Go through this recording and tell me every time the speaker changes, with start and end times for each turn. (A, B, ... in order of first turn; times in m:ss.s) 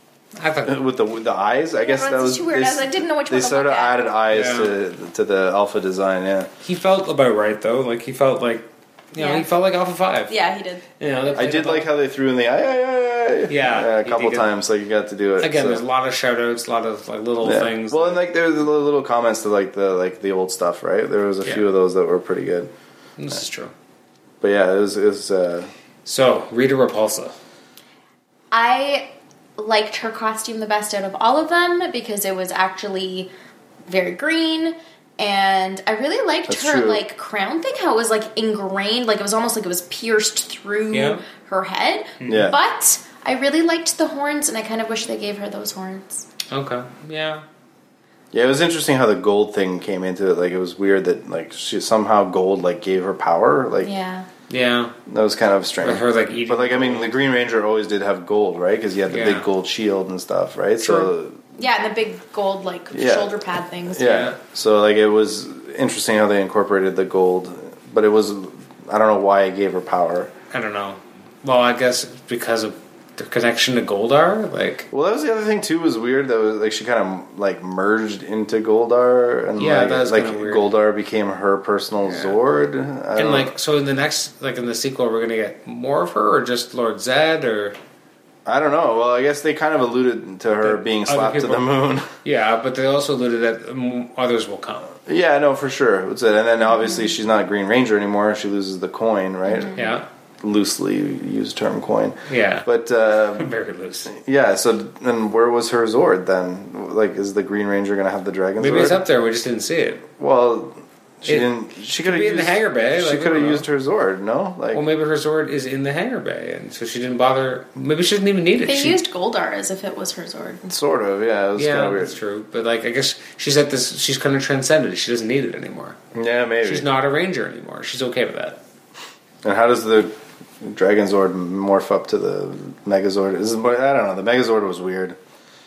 0:00.4-0:00.8 A
0:00.6-0:06.5 B
0:01.8-0:04.0 C
0:04.3-0:04.7 A
0:06.6-0:10.3 A
0:09.2-0:09.4 C
0:10.3-0:10.8 C
0:11.0-0:11.9 A
0:11.4-0:15.8 B
0:13.5-0:14.5 A
0:15.4-0:18.2 A
0:17.4-0:22.7 B
0:23.2-0:23.7 A
0:24.4-0:25.7 B
0:26.0-0:27.4 A
0:28.5-0:33.3 C
0:33.9-0:46.3 C
0:36.5-0:37.0 B
0:40.9-0:41.2 A
0:42.2-0:42.5 A
0:42.3-0:42.6 B
0:46.5-0:47.4 A
0:48.3-0:53.9 B
0:53.8-0:54.3 C
0:54.5-0:54.9 A
0:55.1-1:01.4 B
0:55.8-0:57.1 A
0:59.1-0:59.5 A
1:00.8-1:01.1 A
1:01.6-1:04.3 C
1:02.9-1:10.3 B
1:04.0-1:04.3 A
1:10.5-1:14.9 A
1:14.9-1:23.5 B
1:19.6-1:20.7 A
1:22.0-1:22.4 A
1:23.1-1:27.8 A
1:28.4-1:32.1 B
1:30.6-1:31.7 A
1:32.2-1:34.9 A
1:35.0-1:39.8 B
1:39.5-1:39.9 C
1:39.7-1:40.0 A
1:40.4-1:43.5 B
1:42.3-1:42.7 A
1:43.3-1:44.1 A
1:44.1-1:49.0 B
1:48.6-1:50.0 A
1:50.2-1:54.8 B
1:51.2-1:53.6 A
1:54.7-1:59.0 A
1:58.6-2:00.7 C
2:00.7-2:02.1 B
2:01.6-2:06.0 A
2:06.1-2:06.8 B
2:06.6-2:08.6 A
2:09.4-2:15.2 B